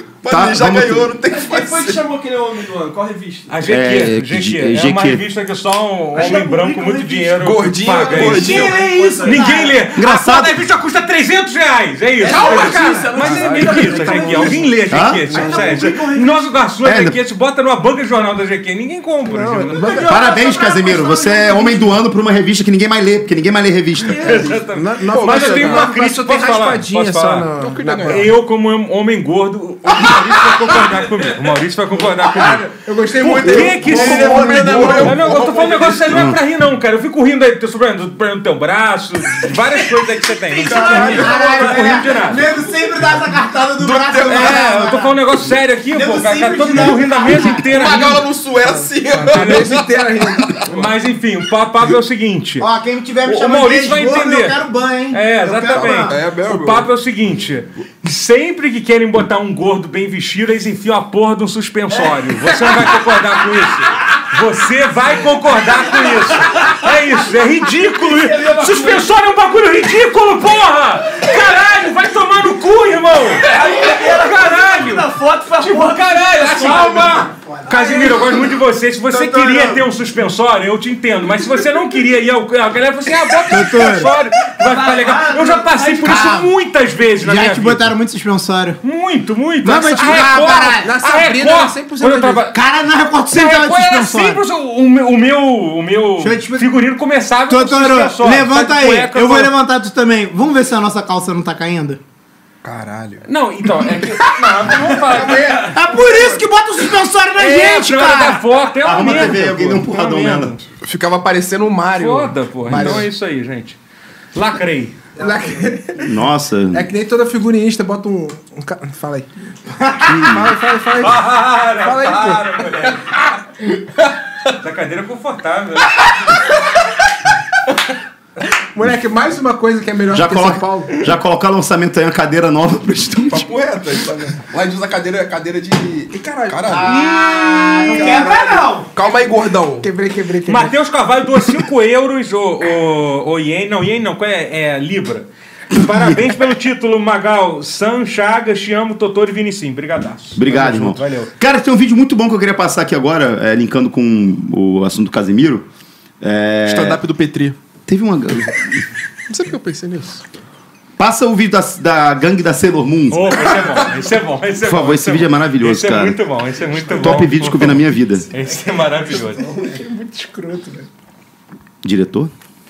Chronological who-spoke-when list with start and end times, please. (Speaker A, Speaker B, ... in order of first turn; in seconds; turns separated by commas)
Speaker A: 0.2-2.0, Speaker B: 0.2-1.1, Speaker C: 1.3-3.5, Speaker D: 3.5-20.3, Speaker B: 3.6-5.2, Speaker C: 6.1-7.3, Speaker A: 7.3-8.8, Speaker E: 8.0-9.8, Speaker C: 8.7-9.6, Speaker B: 9.9-10.6, Speaker C: 12.2-14.8, Speaker F: 12.3-13.0, Speaker A: 13.2-14.5, Speaker E: 13.9-14.6, Speaker B: 14.9-15.3, Speaker E: 15.3-16.3, Speaker C: 15.3-16.1, Speaker B: 16.8-17.1, Speaker F: 19.2-20.4, Speaker E: 19.8-21.7, Speaker B: 20.0-24.5, Speaker D: 24.1-27.5, Speaker F: 24.2-28.3, Speaker A: 25.1-25.9, Speaker A: 27.6-28.3, Speaker D: 28.0-32.7, Speaker F: 32.3-35.4, Speaker A: 33.1-36.1, Speaker D: 33.3-42.5, Speaker B: 36.1-36.4, Speaker E: 40.5-45.1, Speaker A: 40.6-41.9, Speaker A: 43.8-44.8, Speaker D: 44.3-48.3, Speaker E: 45.9-47.8, Speaker A: 47.6-50.9, Speaker F: 48.7-50.6, Speaker D: 49.3-49.8, Speaker D: 50.7-52.7, Speaker E: 52.6-56.1, Speaker D: 53.2-54.6, Speaker D: 55.1-87.9, Speaker A: 55.7-56.9, Speaker C: 68.1-69.1, Speaker C: 73.4-77.3, Speaker E: 76.5-78.1, Speaker E: 79.1-79.8, Speaker E: 83.5-84.1, Speaker B: 83.5-84.1, Speaker C: 84.5-86.2, Speaker E: 85.0-86.5, Speaker E: 87.2-88.8, Speaker D: 88.8-92.6, Speaker E: 89.6-90.9, Speaker F: 90.8-92.5, Speaker E: 92.5-94.4, Speaker D: 93.3-99.5, Speaker E: 96.2-96.7, Speaker E: 97.5-102.0, Speaker A: 102.6-103.2, Speaker D: 103.2-105.8, Speaker A: 104.7-105.7, Speaker E: 105.6-108.4, Speaker D: 107.4-110.6, Speaker B: 108.8-110.5, Speaker A: 110.8-113.1, Speaker D: 112.0-113.8, Speaker F: 112.7-113.1, Speaker D: 114.3-114.9, Speaker F: 115.2-116.2, Speaker B: 116.0-116.9, Speaker F: 116.7-119.3, Speaker B: 120.0-120.5, Speaker F: 120.2-122.9, Speaker D: 121.0-123.2, Speaker D: 124.5-126.4, Speaker F: 128.7-131.0, Speaker B: 130.1-133.5, Speaker A: 133.3-137.1, Speaker F: 134.1-134.4, Speaker F: 136.1-137.0, Speaker E: 136.7-138.9, Speaker A: 137.9-139.9, Speaker F: 139.8-140.8, Speaker D: 140.5-151.3, Speaker B: 145.7-146.4, Speaker B: 150.3-155.7, Speaker B: 156.2-157.0, Speaker A: 156.6-157.6, Speaker B: 157.8-158.8, Speaker A: 159.3-160.2, Speaker B: 161.0-163.4, Speaker D: 163.1-169.4, Speaker B: 164.6-166.2, Speaker B: 166.8-168.3, Speaker F: 168.8-170.9, Speaker B: 171.8-172.3